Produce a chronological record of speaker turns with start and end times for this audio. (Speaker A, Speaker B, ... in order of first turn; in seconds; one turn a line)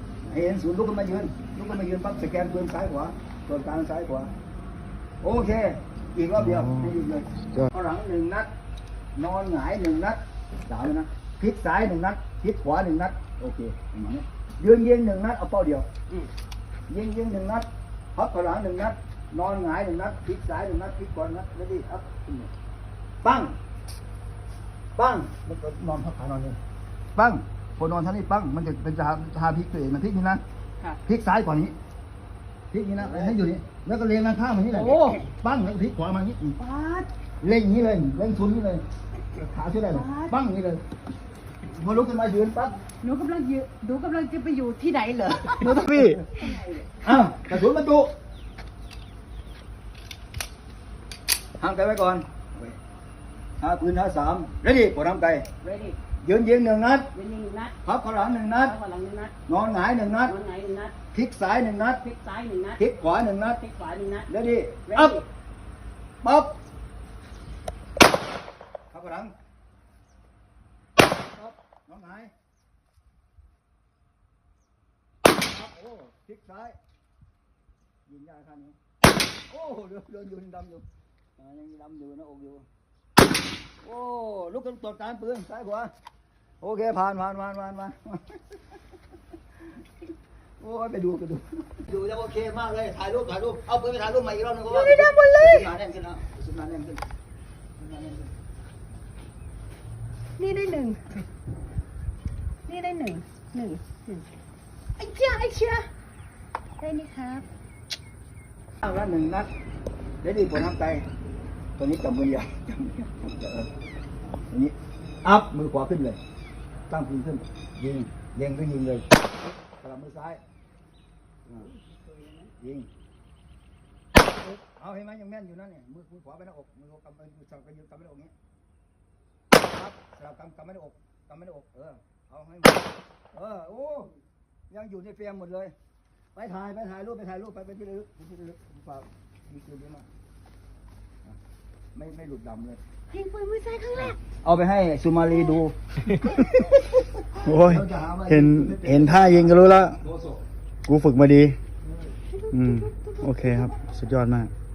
Speaker A: 0.2-4.3
Speaker A: 5.2-8.5
Speaker B: 6.5-6.9
Speaker A: 9.1-15.9
Speaker A: 16.9-22.5
Speaker A: 23.2-23.6
Speaker A: 25.0-26.6
Speaker A: 27.1-30.4
Speaker A: 31.1-31.8
Speaker A: 32.7-38.8
Speaker C: 34.7-35.2
Speaker C: 36.8-37.0
Speaker A: 39.3-40.8
Speaker C: 39.9-40.3
Speaker A: 41.7-42.8
Speaker C: 43.0-46.9
Speaker D: 45.1-45.8
Speaker B: 45.6-46.2
Speaker A: 47.0-48.1
Speaker A: 51.6-52.8
Speaker A: 53.6-55.5
Speaker C: 55.6-56.0
Speaker A: 56.2-57.1
Speaker C: 57.1-57.8
Speaker A: 57.8-58.8
Speaker C: 58.5-59.4
Speaker A: 59.5-60.4
Speaker C: 60.2-61.0
Speaker A: 61.1-62.0
Speaker C: 62.0-62.8
Speaker A: 62.8-63.6
Speaker C: 63.6-64.3
Speaker A: 64.3-65.2
Speaker C: 64.9-65.2
Speaker A: 66.2-66.5
Speaker A: 68.9-69.3
Speaker A: 71.3-72.3
Speaker A: 75.3-76.8
Speaker A: 78.1-78.8
Speaker A: 79.5-80.8
Speaker A: 81.4-82.7
Speaker A: 83.8-85.9
Speaker A: 86.6-88.8
Speaker A: 90.6-97.0
Speaker D: 94.7-95.7
Speaker A: 97.8-98.3
Speaker D: 100.4-101.2
Speaker D: 102.7-104.2
Speaker D: 105.0-105.8
Speaker D: 106.8-107.5
Speaker A: 108.8-109.5
Speaker A: 110.2-111.1
Speaker A: 111.8-113.7
Speaker A: 114.5-116.2
Speaker A: 116.9-119.0
Speaker A: 119.8-120.4
Speaker C: 121.6-122.5
Speaker A: 122.6-122.9
Speaker A: 124.4-128.3
Speaker A: 129.6-134.1
Speaker A: 134.7-135.7
Speaker A: 136.3-140.1
Speaker A: 141.9-142.8
Speaker D: 143.1-144.2
Speaker A: 144.4-145.7
Speaker B: 146.1-146.8
Speaker A: 146.3-150.4
Speaker B: 147.3-150.0
Speaker B: 150.8-151.6
Speaker A: 151.9-152.1
Speaker D: 152.3-153.3
Speaker B: 152.5-154.5